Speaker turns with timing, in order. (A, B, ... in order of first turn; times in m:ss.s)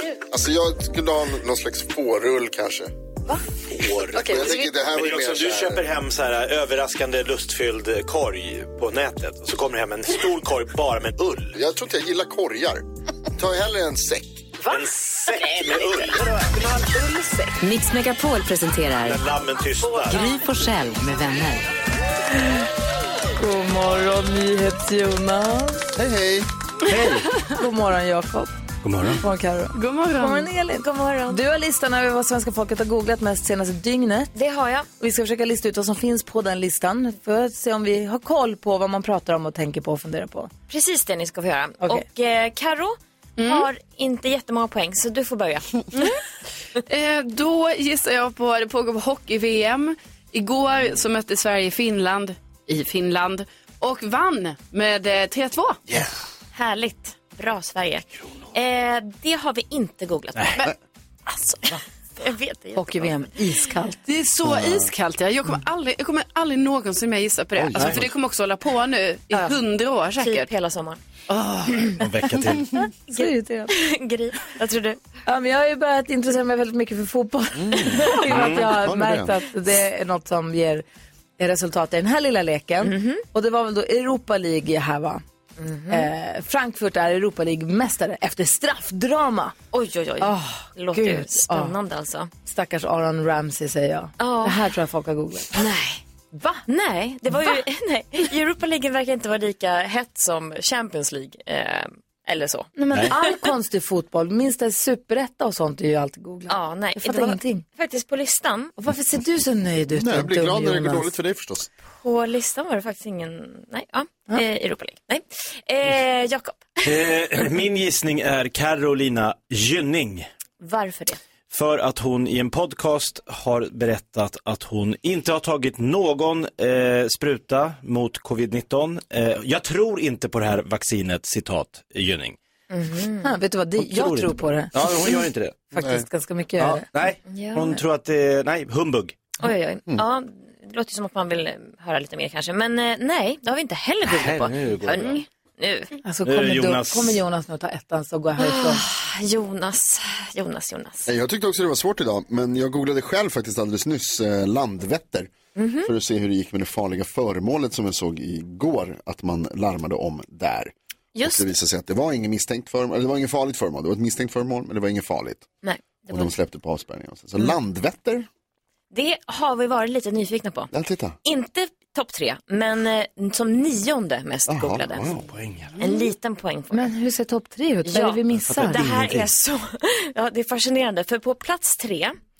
0:00.3-0:02.9 A
0:03.8-0:11.5 B
0:04.1-0:05.9 A
0:11.5-0:12.8 A
0:13.4-0:14.5 A
0:14.7-0:16.3 B
0:16.5-0:17.5 C
0:17.6-0:19.2 D
0:19.0-0:20.2 B
0:20.1-0:21.7 D
0:23.4-0:25.8 E
0:25.9-0:26.5 A
0:26.9-0:27.3 B
0:27.4-0:28.5 E
0:28.8-0:29.2 B
0:29.2-0:34.3 E
0:29.7-0:30.5 C
0:30.8-0:31.4 F
0:34.3-0:34.9 F
0:35.0-0:40.5 E
0:40.7-0:46.2 F
0:43.4-0:43.7 C
0:46.9-0:55.8 C
0:56.5-1:00.7 F
1:01.3-1:03.2 F
1:02.8-1:04.0 E
1:04.0-1:10.5 C
1:04.5-1:04.8 A
1:07.6-1:08.1 A
1:07.8-1:08.0 B
1:10.2-1:11.0 F
1:11.3-1:11.8 C
1:12.0-1:12.7 B
1:13.1-1:13.7 E
1:13.1-1:15.0 F
1:15.2-1:20.8 E
1:17.6-1:19.3 A
1:18.3-1:18.6 B
1:21.4-1:25.2 E
1:22.8-1:23.2 F
1:25.6-1:26.1 F
1:25.9-1:29.5 E
1:29.7-1:32.3 F
1:30.2-1:31.7 E
1:32.4-1:35.6 E
1:34.2-1:34.6 F
1:35.5-1:36.0 F
1:36.3-1:36.6 E
1:36.7-1:43.4 F
1:42.8-1:47.6 E
1:46.5-1:48.7 F
1:48.8-1:51.1 E
1:49.9-1:51.7 A
1:51.9-1:56.9 F
1:56.8-2:00.3 B
2:00.6-2:01.2 F
2:01.5-2:12.4 B
2:12.7-2:13.3 F
2:13.2-2:14.7 E
2:13.8-2:15.6 B
2:15.7-2:16.8 E
2:15.8-2:16.0 A
2:16.6-2:19.2 B
2:17.3-2:17.8 F
2:19.4-2:26.0 F
2:24.0-2:25.2 B
2:26.0-2:28.8 E
2:26.2-2:27.2 B
2:28.4-2:31.1 F
2:31.0-2:35.3 A
2:35.6-2:35.9 F
2:35.8-2:45.5 A
2:41.2-2:41.4 F
2:45.6-2:46.3 F
2:46.1-2:48.3 A
2:48.9-2:50.7 F
2:50.7-2:51.2 A
2:51.2-2:55.1 F
2:54.5-2:55.2 A
2:55.3-2:55.7 B
2:55.8-2:56.9 F
2:56.7-2:58.8 E
2:57.9-3:02.2 F
2:58.5-2:59.3 B